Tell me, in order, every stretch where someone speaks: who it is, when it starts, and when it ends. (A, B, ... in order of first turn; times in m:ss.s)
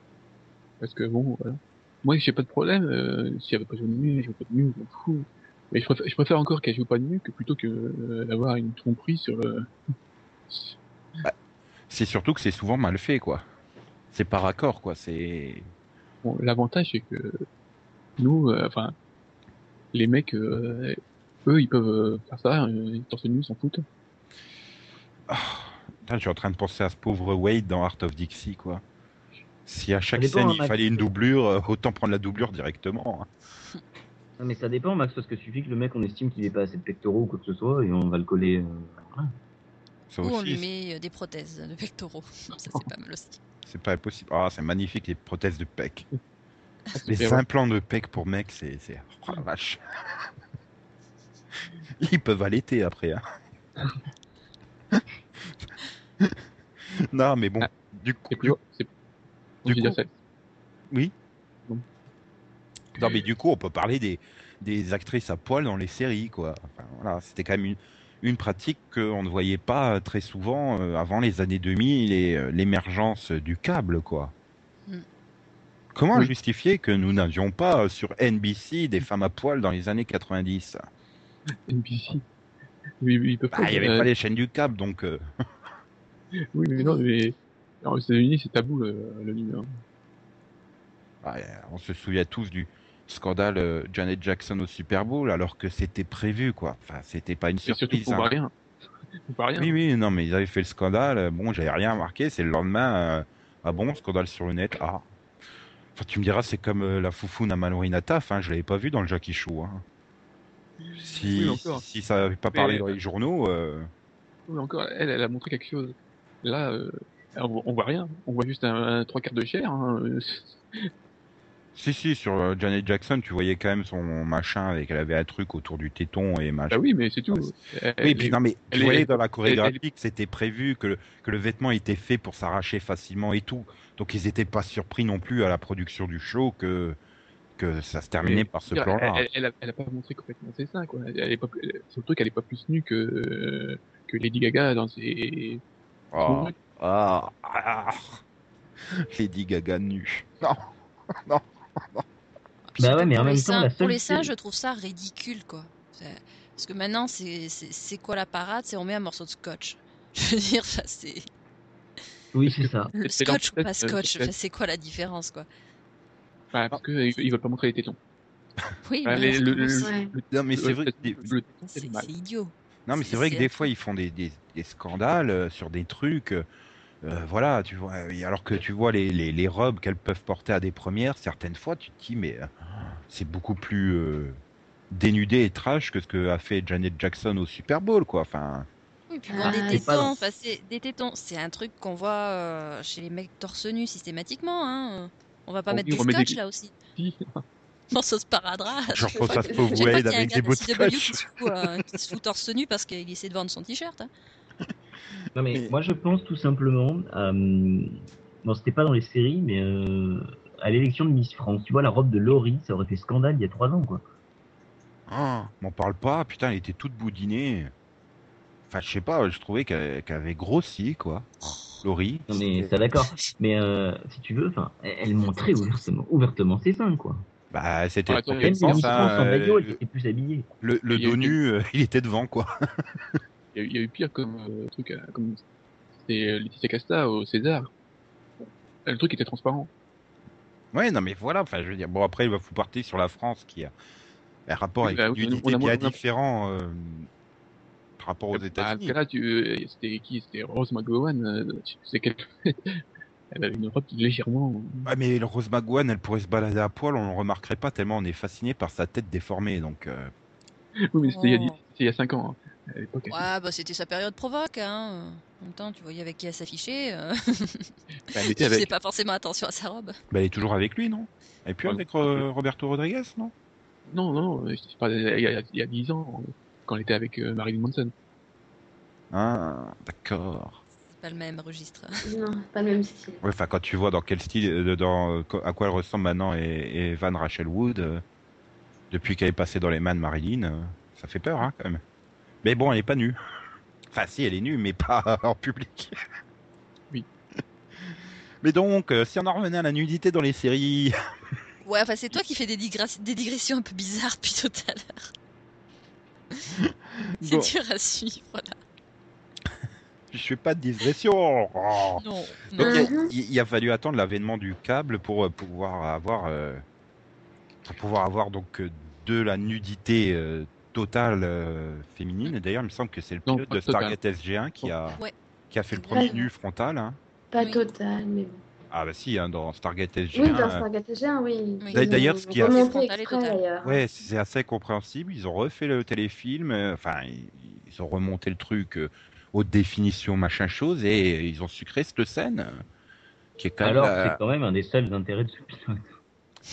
0:00.8-0:09.7 A
0:10.5-0:10.8 A
0:11.9-0:13.4 B
0:14.1-0:15.7 B
0:16.2-0:17.4 A
0:18.2-0:18.9 A
0:19.9-0:23.8 A
0:25.3-0:28.8 B
0:29.7-0:33.3 B
0:30.2-0:31.0 C
0:34.4-0:39.3 C
0:40.1-0:40.6 B
0:40.2-0:43.4 D
0:43.6-0:46.0 B
0:46.9-0:47.4 A
0:47.1-0:50.2 B
0:52.0-0:53.2 B
0:54.9-0:58.6 B
0:58.3-0:58.9 A
0:59.6-1:00.1 A
0:59.6-1:00.0 B
1:02.9-1:14.3 B
1:03.0-1:03.2 A
1:15.9-1:20.8 B
1:21.7-1:22.2 A
1:23.0-1:24.1 A
1:23.5-1:25.2 B
1:26.5-1:29.7 A
1:26.8-1:27.0 D
1:31.2-1:38.3 B
1:37.7-1:38.5 A
1:39.3-1:39.7 A
1:39.6-1:45.0 B
1:46.0-1:49.8 B
1:50.8-1:51.8 A
1:51.0-1:53.9 B
1:52.5-1:53.0 A
1:54.5-2:00.9 A
2:01.8-2:06.8 B
2:06.7-2:09.8 A
2:08.0-2:17.0 B
2:17.6-2:19.3 B
2:18.2-2:25.6 A
2:26.1-2:28.2 B
2:26.2-2:26.5 A
2:28.9-2:32.0 B
2:32.7-2:41.3 D
2:32.8-2:34.3 C
2:42.3-2:42.9 C
2:42.5-2:44.3 A
2:42.9-2:45.5 D
2:46.5-2:48.0 A
2:48.8-2:49.9 D
2:49.0-2:52.1 A
2:49.8-2:50.1 E
2:50.3-2:51.4 B
2:51.7-2:53.7 D
2:52.9-2:56.4 B
2:57.0-3:04.4 B
3:04.9-3:08.7 B
3:09.1-3:16.7 D
3:09.3-3:10.1 E
3:09.4-3:10.1 C
3:15.7-3:16.4 A
3:17.0-3:17.4 A
3:17.9-3:24.1 D
3:18.9-3:21.6 B
3:19.2-3:19.9 E
3:25.3-3:34.0 C
3:35.1-3:37.7 B
3:38.7-3:42.4 B
3:42.3-3:47.2 C
3:43.0-3:43.3 D
3:47.5-3:49.8 B
3:48.1-3:49.1 A
3:48.4-3:50.5 C
3:50.6-3:53.2 B
3:50.9-3:51.4 A
3:53.5-3:55.4 A
3:56.0-3:57.7 A
3:58.8-3:59.7 A
4:00.7-4:03.7 B
4:04.5-4:07.1 B
4:04.8-4:06.0 A
4:08.0-4:09.0 B
4:08.3-4:14.9 A
4:14.8-4:20.1 B
4:20.9-4:23.2 A
4:21.0-4:21.6 D
4:23.1-4:30.0 D
4:28.1-4:28.7 A
4:30.1-4:33.3 B
4:31.6-4:32.2 A
4:33.9-4:37.9 A
4:39.1-4:40.6 B
4:40.9-4:41.9 D
4:42.0-4:43.2 E
4:43.2-4:48.0 B
4:48.9-4:51.8 B
4:52.4-4:53.2 B
4:53.9-4:55.9 B
4:57.9-5:00.9 B
5:01.6-5:05.1 D
5:06.5-5:07.5 B
5:07.2-5:08.6 D
5:10.1-5:12.0 B
5:12.0-5:12.9 D
5:12.5-5:16.6 B
5:12.6-5:13.1 E
5:17.6-5:25.0 B
5:23.2-5:24.0 A
5:25.5-5:27.0 B
5:25.7-5:26.3 D
5:27.3-5:28.4 E
5:28.7-5:30.6 B
5:30.1-5:33.8 E
5:31.6-5:33.4 D
5:31.7-5:32.8 B
5:33.6-5:42.6 B
5:43.4-5:44.2 B
5:43.6-5:45.9 C